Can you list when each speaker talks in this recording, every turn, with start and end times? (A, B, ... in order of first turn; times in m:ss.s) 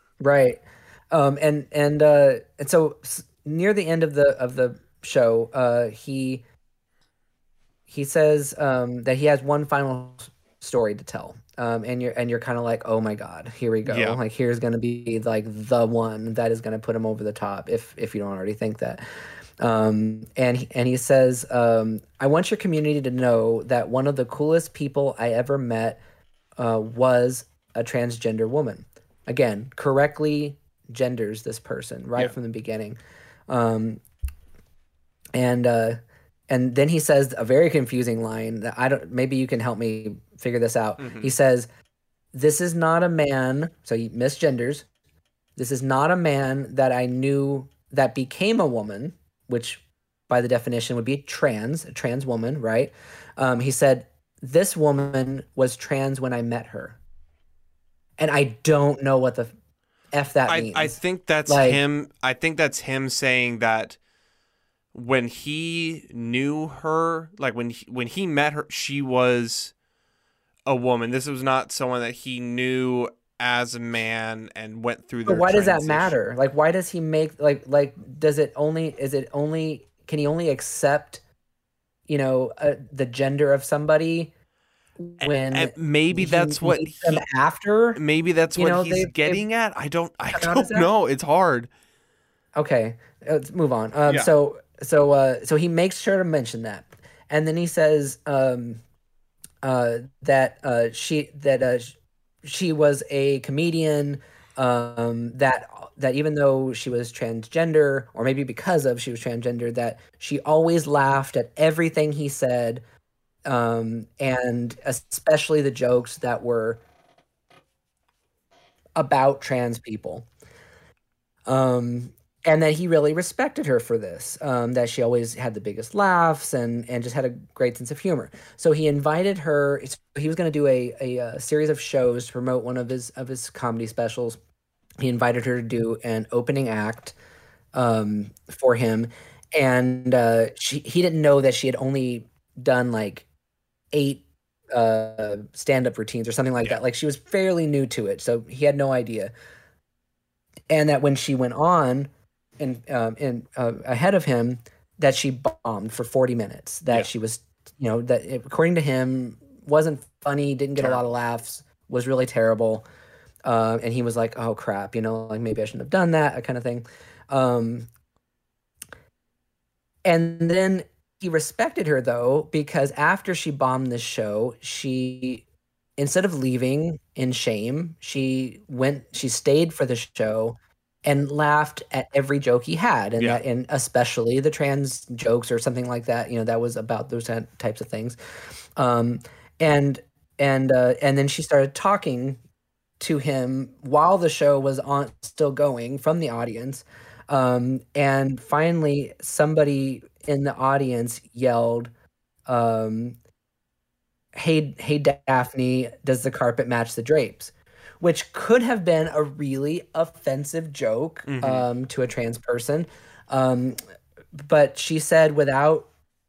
0:00.2-0:06.4 A
0:07.9-0:19.0 A
0:13.8-0:14.2 B
0:19.6-0:26.0 A
0:26.6-0:33.0 A
0:33.5-0:34.0 A
0:35.3-0:36.0 A
0:36.5-0:41.7 A
0:41.0-0:41.3 B
0:42.3-0:44.9 A
0:45.6-0:57.0 A
0:58.2-0:59.5 A
1:00.1-1:01.8 A
1:00.5-1:04.0 B
1:04.9-1:09.7 B
1:10.7-1:16.1 B
1:15.2-1:21.2 A
1:22.1-1:24.3 A
1:25.0-1:28.0 A
1:25.2-1:27.2 B
1:28.0-1:31.7 B
1:28.6-1:29.4 A
1:30.3-1:30.9 A
1:32.5-1:38.8 A
1:39.6-1:52.8 A
1:53.4-1:56.8 A
1:59.0-2:00.3 A
2:01.5-2:14.4 A
2:15.0-2:17.1 A
2:17.7-2:23.3 A
2:23.9-2:29.3 A
2:30.7-2:42.8 A
2:40.8-2:41.0 B
2:43.4-2:47.9 A
2:50.0-2:55.4 A
2:56.0-3:08.2 A
3:08.8-3:12.4 A
3:13.0-3:21.9 A
3:22.5-3:23.2 A
3:24.3-3:33.8 A
3:31.3-3:31.6 B
3:34.3-3:35.9 A